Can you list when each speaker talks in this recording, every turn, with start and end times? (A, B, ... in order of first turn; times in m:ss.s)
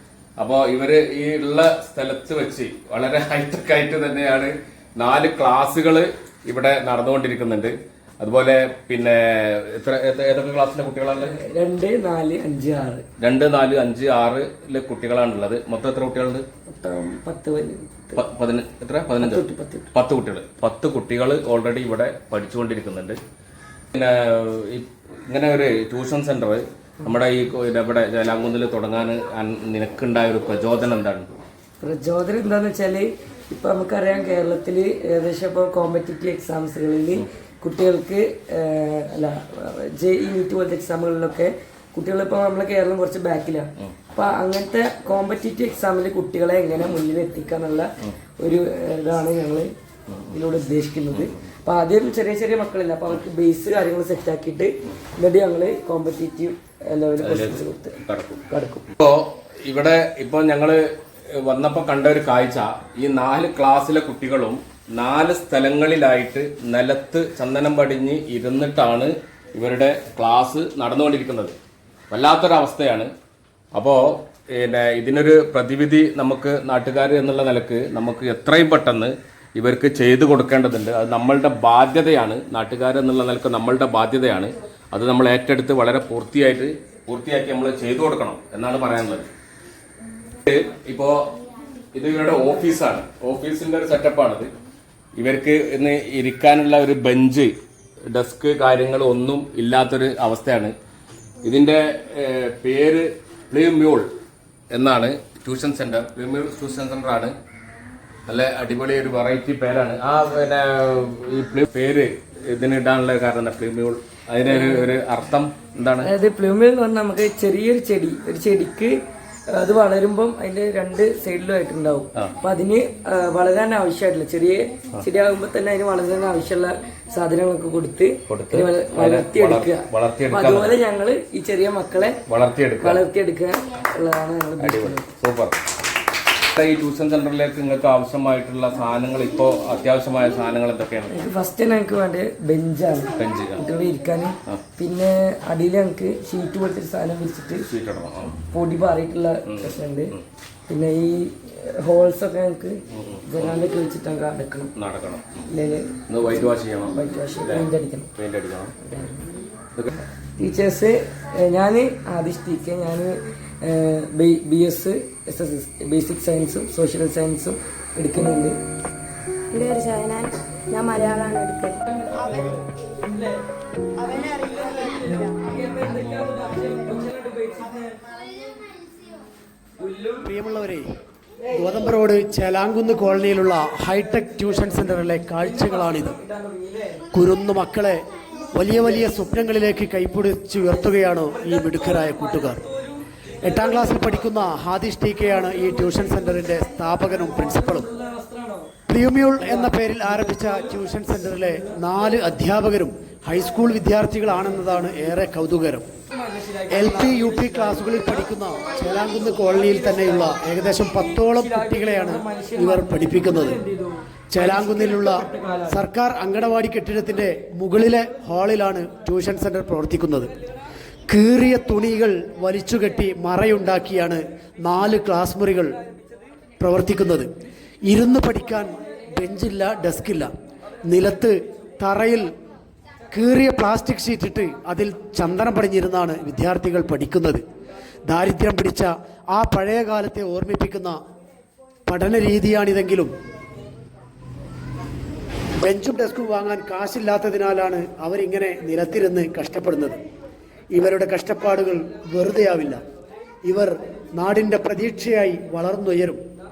0:00.4-0:11.4 A
0:11.1-0:13.0 B
0:13.2-0:16.4 A
0:16.7-0:18.2 B
0:18.1-0:23.2 A
0:19.2-0:19.9 B
0:23.9-0:31.3 A
0:31.8-0:49.7 B
0:50.3-0:58.9 B
0:57.2-0:58.4 A
0:58.9-1:00.8 A
1:01.4-1:11.5 A
1:12.1-1:13.1 A
1:13.8-1:14.0 A
1:14.6-1:29.3 A
1:30.4-1:31.3 A
1:31.9-1:34.5 A
1:35.2-1:37.5 A
1:38.1-1:40.7 A
1:41.4-1:44.0 A
1:44.7-1:47.3 A
1:48.3-1:56.1 A
1:54.4-1:54.9 B
1:56.0-1:58.9 B
1:59.5-2:12.2 B
2:08.3-2:10.8 A
2:12.3-2:13.0 A
2:12.8-2:15.1 B
2:14.6-2:15.6 A
2:16.6-2:21.1 A
2:21.1-2:27.7 B
2:23.1-2:23.6 A
2:27.7-2:28.4 A
2:28.5-2:30.2 B
2:29.4-2:30.2 A
2:30.7-2:34.7 B
2:33.0-2:33.6 A
2:34.8-2:35.4 A
2:35.5-2:38.1 B
2:36.1-2:38.8 A
2:38.8-2:39.3 B
2:40.4-2:48.6 B
2:49.5-2:51.8 C
2:52.0-2:53.4 B
2:54.0-2:58.0 B
2:54.2-2:54.7 C
2:59.8-3:00.3 B
3:00.2-3:00.8 D
3:01.5-3:06.2 D
3:05.4-3:07.0 B
3:07.1-3:08.0 D
3:08.6-3:12.6 D
3:10.9-3:14.3 B
3:13.4-3:17.9 D
3:15.6-3:16.2 B
3:17.1-3:18.7 B
3:18.9-3:25.9 D
3:19.4-3:22.0 B
3:26.1-3:35.8 B
3:26.7-3:33.6 D
3:34.3-3:40.3 D
3:41.1-3:45.8 D
3:46.6-3:47.3 D
3:47.9-3:50.3 D
3:50.9-3:52.3 D
3:53.1-3:57.4 D
3:58.1-4:01.0 D
4:01.9-4:03.1 D
4:05.6-4:10.0 D
4:10.7-4:12.8 D
4:13.4-4:16.2 D